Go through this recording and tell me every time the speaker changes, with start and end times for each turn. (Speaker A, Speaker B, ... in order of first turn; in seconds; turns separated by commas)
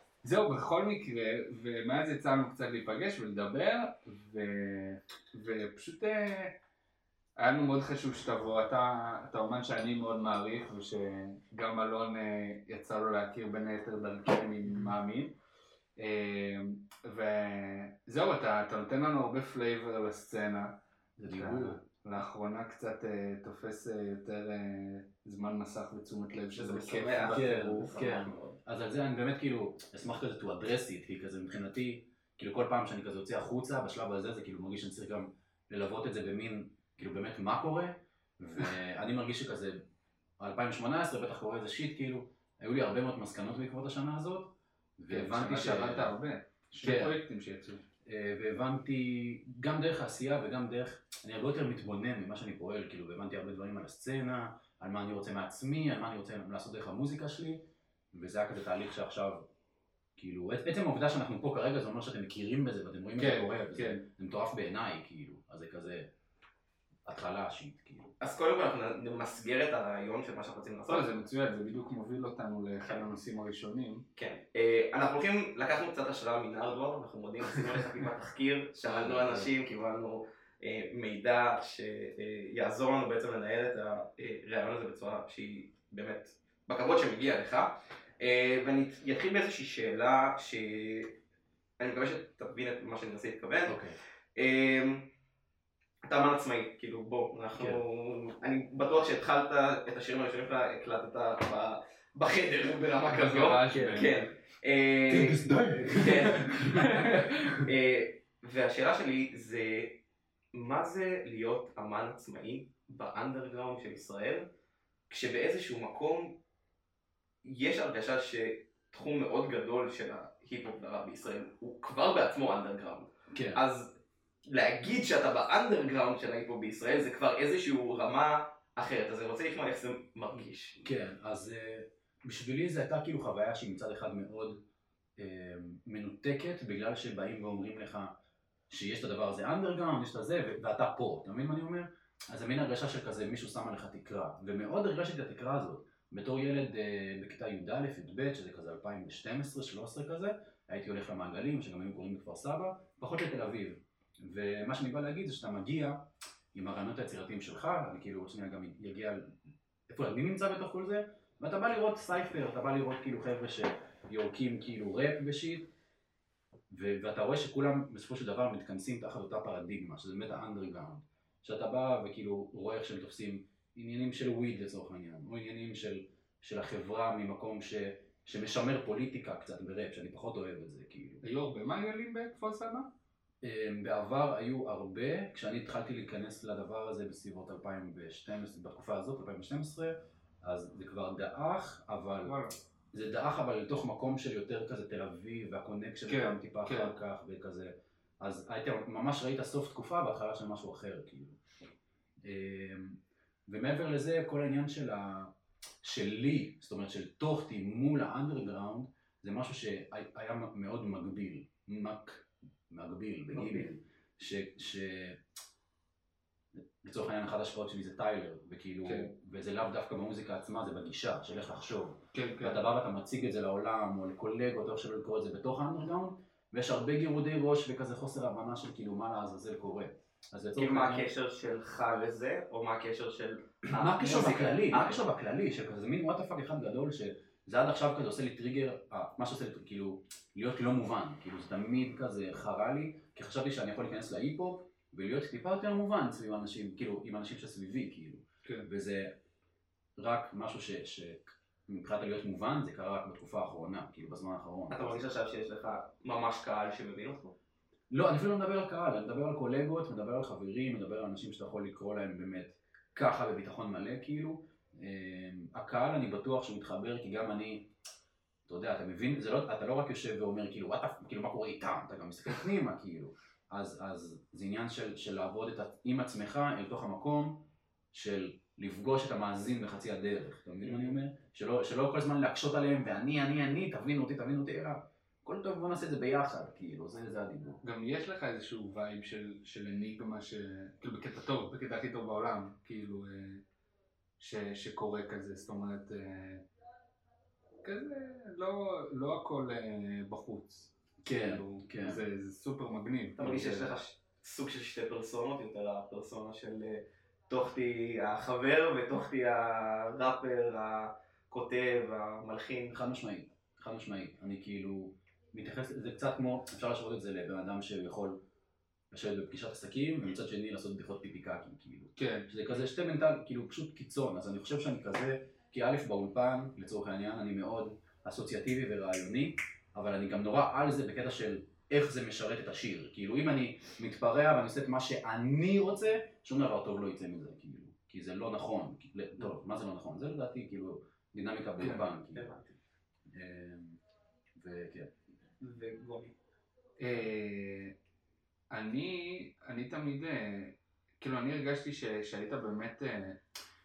Speaker A: 0.2-6.5, Speaker A: 7.4-15.3, Speaker A: 15.9-20.8, Speaker B: 21.2-21.8, Speaker A: 21.3-27.9, Speaker C: 26.5-28.5, Speaker B: 27.3-39.8, Speaker B: 40.4-46.1, Speaker A: 45.1-47.8, Speaker B: 46.8-47.2, Speaker B: 48.0-59.5, Speaker B: 60.2-66.1, Speaker A: 63.2-64.0, Speaker B: 67.0-68.1, Speaker C: 68.2-71.0, Speaker A: 70.9-74.0, Speaker C: 74.2-91.2, Speaker B: 78.8-79.5, Speaker C: 91.8-93.8, Speaker B: 93.7-94.0, Speaker C: 94.3-95.1, Speaker C: 96.0-110.0, Speaker B: 97.5-97.8, Speaker A: 103.0-104.1, Speaker B: 105.1-107.1, Speaker A: 106.0-107.6, Speaker C: 110.5-114.5, Speaker C: 115.1-116.4, Speaker C: 117.4-123.9, Speaker B: 123.3-123.6, Speaker C: 124.5-130.8, Speaker B: 130.8-134.6, Speaker B: 135.2-138.2, Speaker B: 138.7-159.3, Speaker B: 159.9-165.7, Speaker B: 166.7-181.2, Speaker A: 181.2-182.9, Speaker B: 183.4-192.4, Speaker A: 192.2-192.5, Speaker B: 192.9-201.4, Speaker A: 196.1-196.9, Speaker B: 202.2-215.2, Speaker C: 213.3-213.7, Speaker B: 216.6-231.1, Speaker A: 218.8-219.1, Speaker A: 222.1-222.6, Speaker C: 230.6-235.0, Speaker B: 233.7-249.2, Speaker B: 250.0-255.1, Speaker C: 254.7-257.4, Speaker B: 257.9-267.7, Speaker B: 268.5-287.6, Speaker A: 287.6-293.4, Speaker A: 294.2-296.4, Speaker A: 297.6-303.7, Speaker B: 301.0-302.0, Speaker C: 303.2-312.8, Speaker B: 303.2-303.6, Speaker B: 312.7-318.2, Speaker B: 318.9-342.3, Speaker A: 321.9-322.3, Speaker A: 341.6-341.9, Speaker C: 342.1-342.6, Speaker B: 343.1-343.8, Speaker B: 344.3-344.9, Speaker C: 345.4-346.1, Speaker A: 346.8-347.8, Speaker A: 348.5-353.2